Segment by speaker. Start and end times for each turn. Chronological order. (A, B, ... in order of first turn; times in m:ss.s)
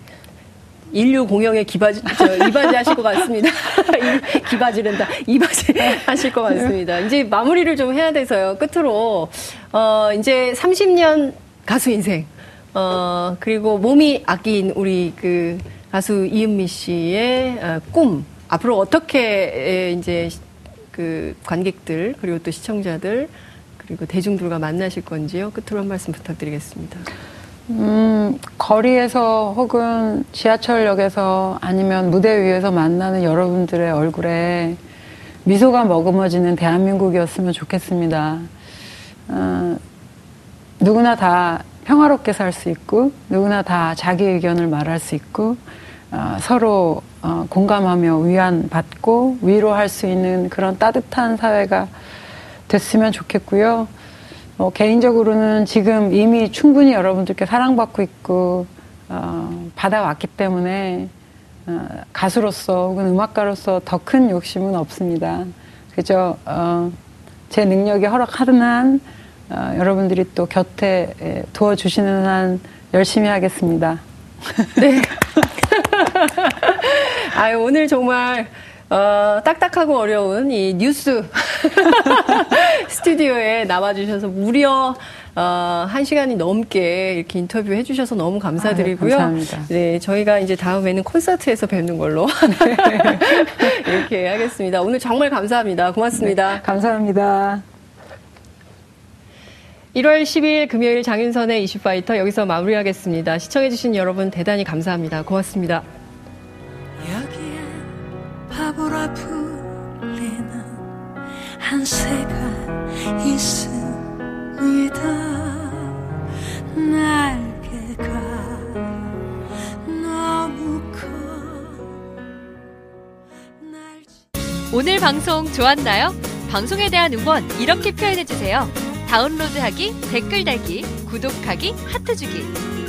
0:00.9-0:20.4 A
0:20.9-0:27.1 A
0:27.7-0:34.8 B
0:35.4-0:38.5 B
0:39.3-0:39.8 B
0:40.8-0:51.9 B
0:52.7-0:53.9 B
0:54.6-1:01.1 B
1:01.6-1:07.0 B
1:07.5-1:14.8 B
1:14.8-1:36.6 A
1:28.6-1:29.7 B
1:32.5-1:34.0 B
1:36.2-1:37.6 B
1:39.9-1:45.8 A
1:47.0-1:47.8 B
1:48.5-1:50.8 B
1:51.6-1:56.0 B
1:56.7-1:59.0 B
1:59.8-2:01.9 B
2:03.6-2:04.1 B
2:04.7-2:12.5 C